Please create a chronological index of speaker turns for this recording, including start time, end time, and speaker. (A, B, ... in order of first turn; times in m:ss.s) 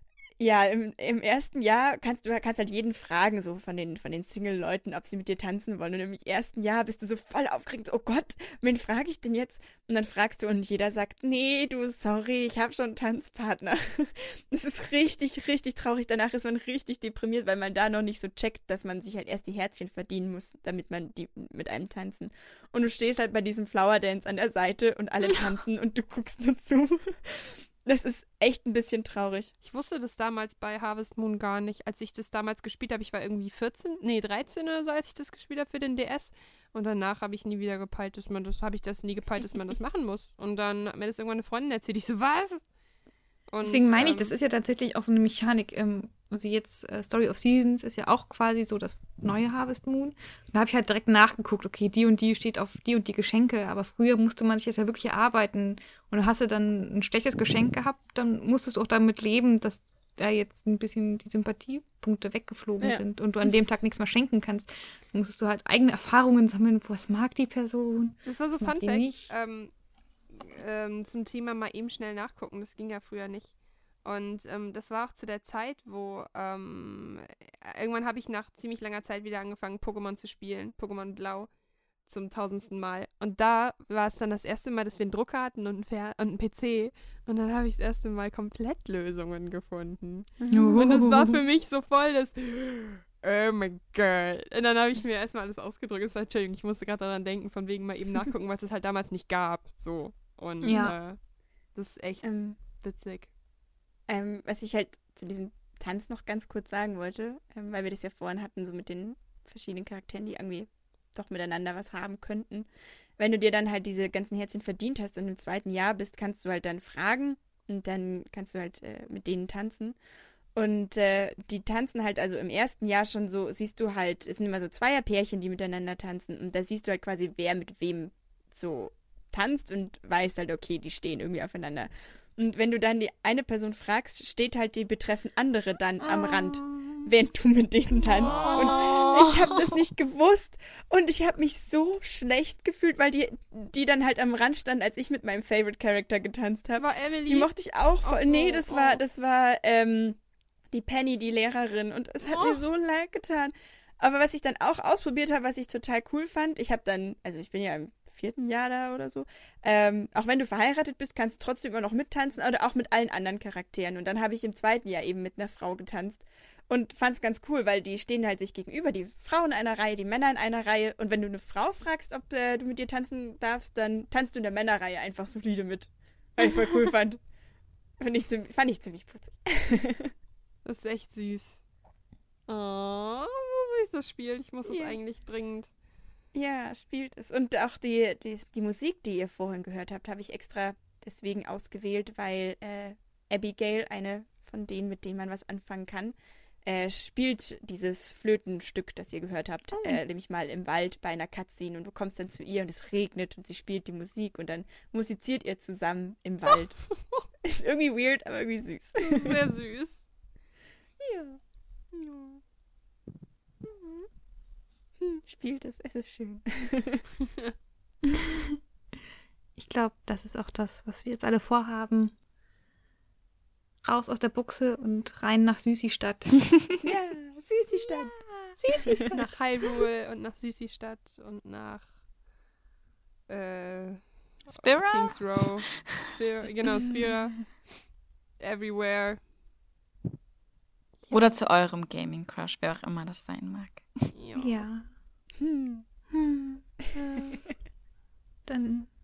0:00.4-0:29.5 A
0:29.6-0:42.6 B
0:43.5-0:44.3 B
0:43.6-1:09.3 C
1:08.2-1:09.7 B
1:10.3-1:21.5 B
1:22.0-1:41.2 B
1:30.4-1:30.8 A
1:30.5-1:31.4 C
1:40.6-1:41.0 C
1:41.7-1:43.3 B
1:42.2-1:42.6 A
1:44.1-2:00.0 A
2:00.6-2:30.2 A
2:18.3-2:18.9 B
2:18.8-2:19.6 D
2:26.8-2:27.5 B
2:28.0-2:29.0 B
2:30.7-2:57.2 A
2:32.2-2:32.6 B
2:58.0-3:00.1 A
3:00.6-3:01.6 B
3:02.5-3:05.7 B
3:04.6-3:05.0 A
3:06.3-3:29.4 A
3:19.7-3:20.0 C
3:29.0-3:30.0 B
3:31.0-3:31.4 A
3:32.0-3:32.4 B
3:35.0-3:37.0 A
3:38.1-3:38.6 C
3:39.6-3:42.1 C
3:43.8-3:46.4 C
3:46.8-3:49.0 A
3:48.6-3:49.3 C
3:48.8-3:51.9 B
3:53.3-3:57.5 B
3:54.5-3:56.0 D
3:58.4-3:59.2 B
4:01.1-4:04.1 D
4:04.1-4:04.6 B
4:04.4-4:04.9 C
4:05.4-4:05.8 A
4:06.1-4:07.4 C
4:08.5-4:08.9 C